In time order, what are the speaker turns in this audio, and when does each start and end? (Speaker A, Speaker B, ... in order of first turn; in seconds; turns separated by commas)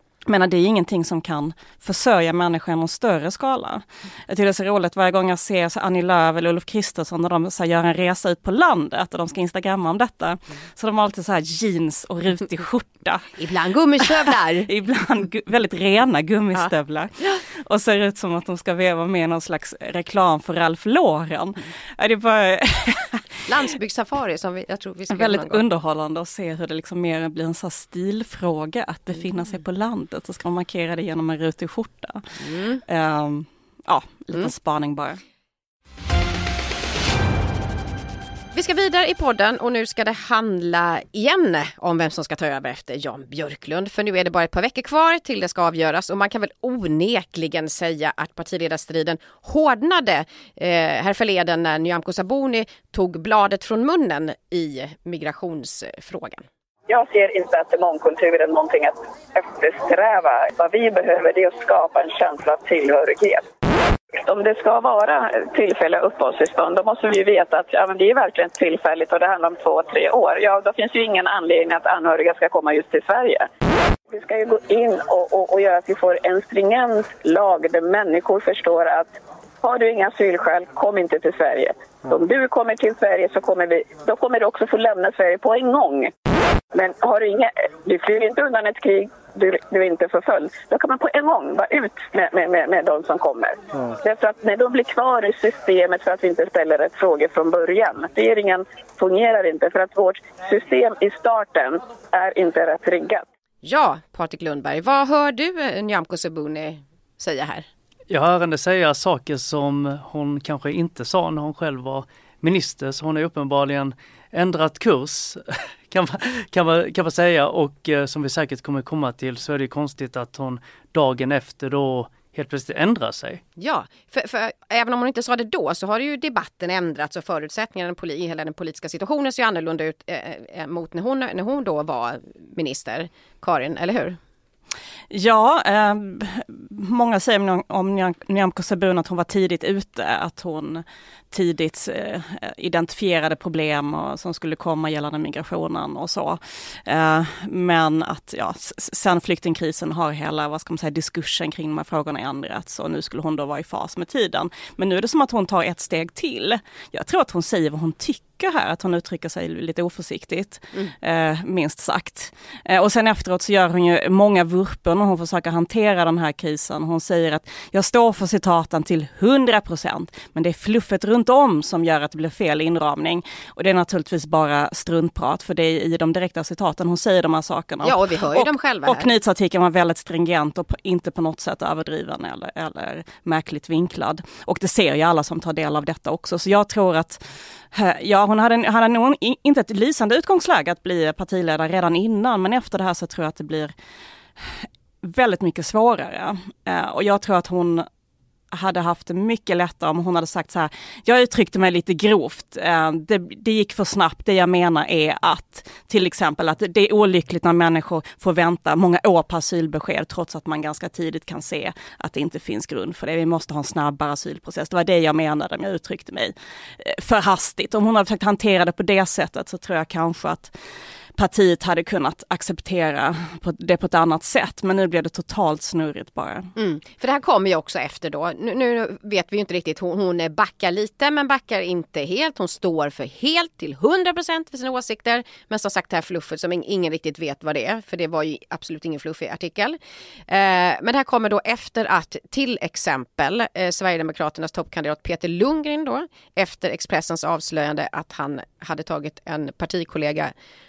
Speaker A: 0.3-13.4, Speaker B: 13.4-14.7, Speaker A: 14.7-23.3, Speaker B: 16.6-17.4, Speaker B: 23.5-25.6, Speaker A: 25.1-32.3, Speaker B: 32.4-32.8, Speaker A: 32.9-35.2, Speaker B: 38.5-56.4, Speaker C: 56.9-63.5, Speaker C: 64.1-73.5, Speaker C: 74.1-86.1, Speaker C: 86.7-103.3, Speaker B: 103.6-107.7, Speaker D: 108.1-123.4, Speaker B: 123.6-134.2, Speaker A: 135.1-193.7, Speaker B: 177.8-179.1, Speaker A: 194.4-197.9, Speaker A: 198.5-220.5, Speaker A: 221.2-226.5, Speaker B: 226.6-239.8, Speaker B: 240.3-250.3